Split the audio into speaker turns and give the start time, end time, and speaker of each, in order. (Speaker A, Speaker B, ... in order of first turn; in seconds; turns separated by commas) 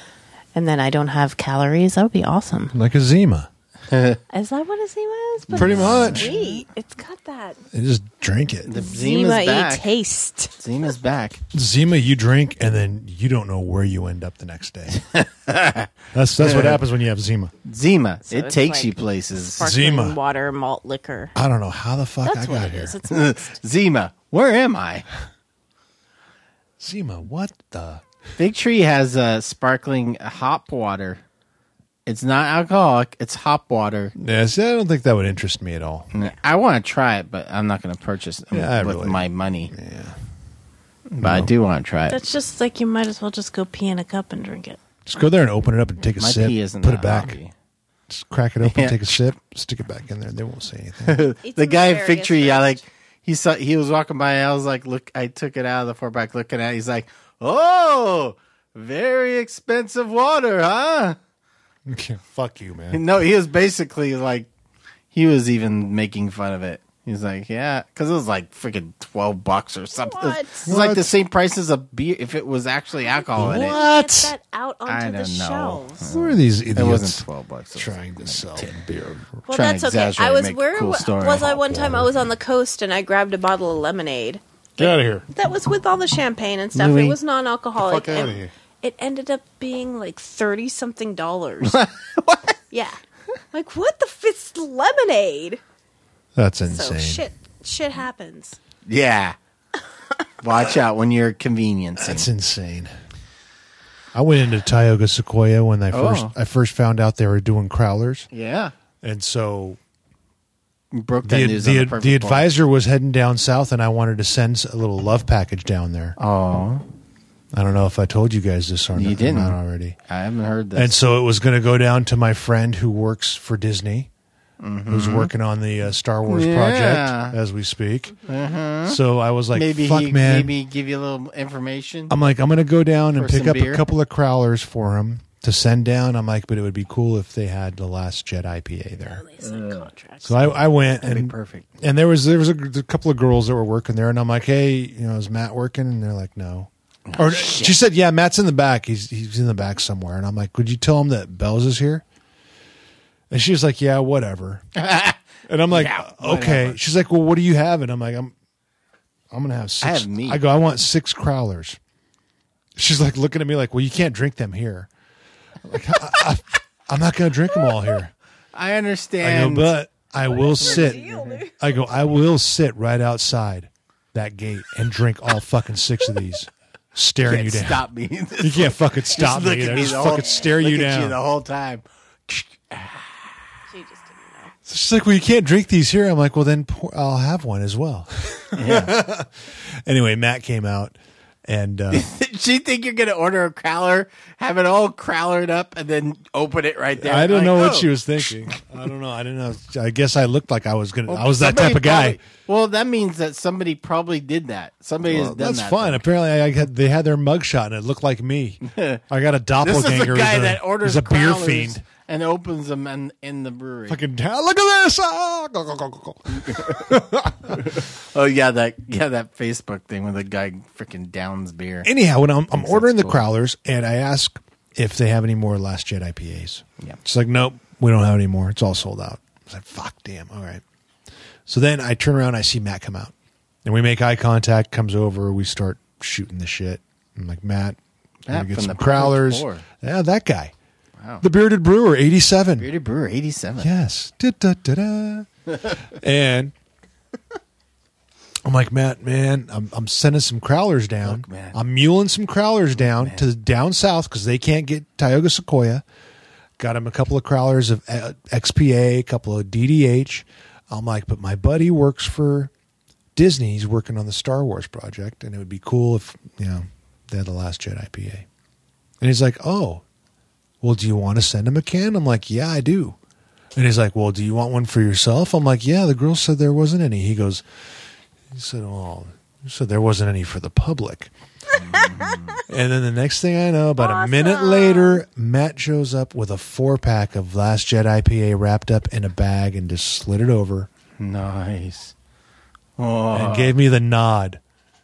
Speaker A: 0.5-2.7, Speaker B: 2.7-3.5, Speaker C: 3.9-4.2, Speaker A: 4.3-7.6, Speaker C: 5.5-6.5, Speaker B: 5.5-6.3, Speaker B: 7.7-8.7, Speaker C: 8.7-9.9, Speaker A: 8.8-10.6, Speaker C: 10.6-11.4, Speaker B: 11.5-15.0, Speaker C: 14.9-16.8, Speaker B: 16.1-17.5, Speaker C: 17.6-19.7, Speaker A: 18.3-21.3, Speaker B: 19.6-20.2, Speaker B: 21.4-22.9, Speaker A: 22.2-23.6, Speaker C: 22.9-25.1, Speaker B: 26.8-28.0, Speaker C: 28.4-31.2, Speaker C: 32.1-34.1, Speaker B: 34.2-36.1, Speaker C: 36.1-39.7, Speaker B: 38.5-40.2, Speaker C: 41.1-42.2, Speaker B: 41.2-41.5, Speaker A: 42.1-44.8, Speaker B: 45.1-47.4, Speaker C: 46.2-47.5, Speaker B: 48.1-51.2, Speaker C: 48.6-49.1, Speaker C: 51.0-61.2, Speaker A: 51.4-52.8, Speaker B: 61.9-63.0, Speaker C: 62.9-64.5, Speaker C: 65.1-73.8, Speaker A: 70.0-70.7, Speaker B: 70.7-71.1, Speaker A: 73.0-76.0, Speaker B: 73.4-74.3, Speaker C: 74.9-78.8, Speaker B: 76.1-77.2, Speaker B: 77.8-79.4, Speaker C: 79.5-81.8, Speaker A: 79.5-91.9, Speaker B: 81.7-82.1, Speaker B: 84.8-85.2, Speaker C: 86.7-87.2, Speaker B: 87.8-88.5, Speaker C: 91.7-92.4, Speaker A: 92.7-93.0, Speaker A: 93.5-95.6, Speaker B: 96.3-97.2, Speaker A: 96.7-98.6, Speaker C: 98.9-99.4, Speaker C: 100.4-102.3, Speaker B: 102.0-102.9, Speaker B: 104.1-108.3, Speaker C: 105.9-106.3, Speaker C: 108.3-108.7, Speaker B: 109.0-109.8, Speaker C: 110.9-112.5, Speaker B: 111.2-116.2, Speaker C: 116.2-116.8, Speaker B: 117.5-120.0, Speaker C: 119.0-120.9, Speaker B: 120.8-124.1, Speaker C: 124.6-125.3, Speaker B: 124.9-128.2, Speaker C: 126.3-127.4, Speaker C: 128.2-129.0, Speaker B: 128.8-130.5, Speaker C: 129.5-132.2, Speaker B: 132.1-139.2, Speaker C: 133.2-133.8, Speaker A: 139.0-140.5, Speaker C: 139.4-139.8, Speaker B: 140.2-152.0, Speaker C: 141.0-141.7, Speaker C: 147.1-147.7, Speaker B: 153.3-154.7, Speaker C: 154.8-156.8, Speaker B: 155.5-158.3, Speaker B: 159.3-161.8, Speaker C: 159.8-160.4, Speaker B: 162.8-164.9, Speaker B: 165.6-168.1, Speaker C: 168.5-169.7, Speaker B: 169.2-177.8, Speaker A: 170.3-171.5, Speaker C: 170.6-171.3, Speaker C: 177.2-183.3, Speaker B: 178.4-181.2, Speaker A: 183.7-184.5, Speaker B: 184.7-192.1, Speaker C: 188.5-189.0, Speaker C: 191.9-198.8, Speaker B: 197.0-202.2, Speaker C: 201.1-206.0, Speaker B: 205.0-211.8, Speaker C: 208.6-209.0, Speaker C: 209.6-214.0, Speaker B: 213.9-217.6, Speaker C: 216.5-216.7, Speaker C: 217.5-221.9, Speaker B: 221.8-230.6, Speaker C: 222.5-223.2, Speaker B: 231.5-233.1, Speaker B: 233.7-237.8, Speaker C: 238.3-239.7, Speaker B: 238.3-240.5, Speaker C: 241.0-241.2, Speaker B: 241.2-242.7, Speaker C: 242.6-243.7, Speaker B: 243.6-246.5, Speaker B: 248.4-255.8, Speaker C: 251.0-251.6, Speaker C: 252.8-253.2, Speaker B: 256.6-262.5, Speaker B: 263.2-268.3, Speaker B: 269.0-269.8, Speaker B: 270.6-273.0, Speaker B: 273.6-277.4, Speaker B: 278.3-281.1, Speaker A: 281.5-282.4, Speaker C: 281.5-282.4, Speaker B: 282.5-290.7, Speaker A: 283.8-285.0, Speaker C: 291.0-291.9, Speaker C: 292.8-293.6, Speaker B: 293.1-294.4